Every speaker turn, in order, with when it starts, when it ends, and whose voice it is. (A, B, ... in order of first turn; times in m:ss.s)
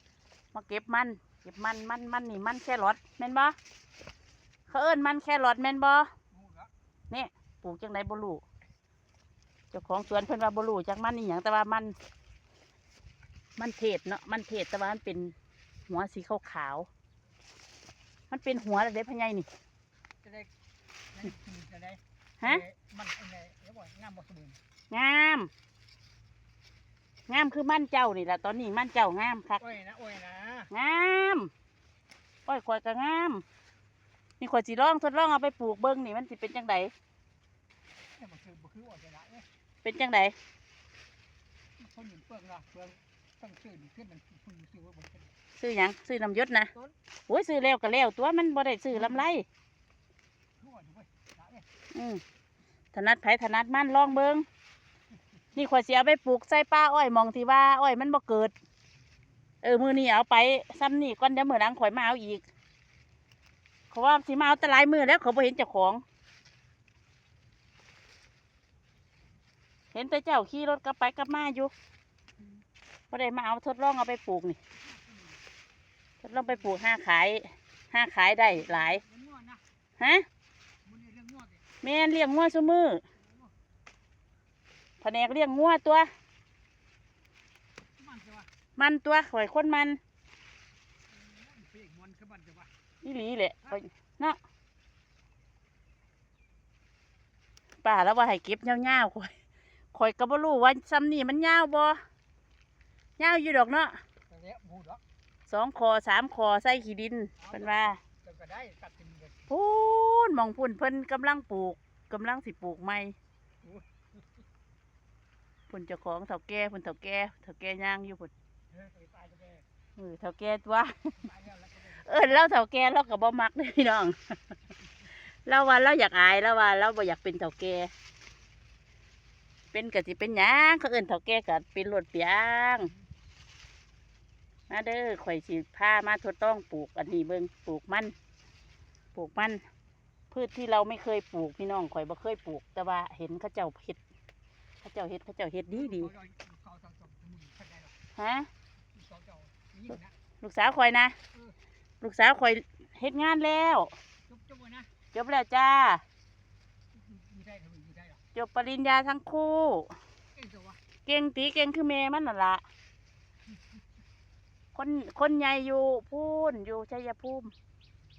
0:00.5-0:03.6 A
0:04.7-0:06.1 A
0:06.3-0:06.7 B
0:07.1-0:08.4 A
0:09.7-0:12.0 A
0:13.6-0:15.3 A
0:15.9-0:16.9 A
0:18.3-0:19.5 A
0:20.2-0:20.5 B
0:21.1-0:24.6 B
0:24.9-0:25.5 A
0:27.3-0:29.6 A
0:29.6-0:30.7 B
0:30.7-0:31.5 A
0:32.5-0:33.4 A
0:34.4-0:36.9 A
0:38.2-0:39.5 B
0:39.8-0:40.4 A
0:41.8-0:45.3 B
0:45.6-0:46.7 A
0:47.3-0:49.5 A
0:48.9-0:49.2 B
0:50.6-0:51.7 B
0:51.9-0:52.2 A
0:52.9-0:54.5 A
0:55.6-0:58.5 A
0:59.6-1:02.4 A
1:03.9-1:06.0 A
1:09.9-1:11.7 A
1:13.1-1:14.6 A
1:14.8-1:15.4 B
1:16.2-1:19.0 A
1:18.5-1:19.6 B
1:20.0-1:20.3 A
1:20.8-1:21.6 B
1:21.8-1:23.0 A
1:25.0-1:26.1 A
1:28.0-1:28.5 B
1:28.8-1:30.0 A
1:31.1-1:32.7 B
1:33.0-1:34.4 A
1:37.8-1:39.3 A
1:39.9-1:42.0 A
1:43.2-1:44.0 A
1:44.3-1:45.0 B
1:45.5-1:48.0 A
1:47.4-1:49.5 B
1:49.5-1:53.2 A
1:53.6-1:53.9 B
1:55.7-1:58.3 A
1:58.7-1:59.7 B
2:00.0-2:01.2 A
2:01.2-2:02.4 B
2:01.9-2:04.4 A
2:05.2-2:07.9 A
2:09.7-2:12.9 A
2:14.7-2:18.2 A
2:19.2-2:19.6 A
2:20.3-2:24.0 A
2:24.8-2:26.1 A
2:25.7-2:28.0 B
2:28.2-2:28.5 A
2:28.9-2:30.1 B
2:30.4-2:31.2 A
2:32.0-2:33.9 A
2:34.3-2:34.9 B
2:35.1-2:36.0 A
2:36.9-2:38.2 B
2:38.4-2:40.0 A
2:40.3-2:40.8 B
2:41.1-2:42.6 A
2:44.8-2:47.5 A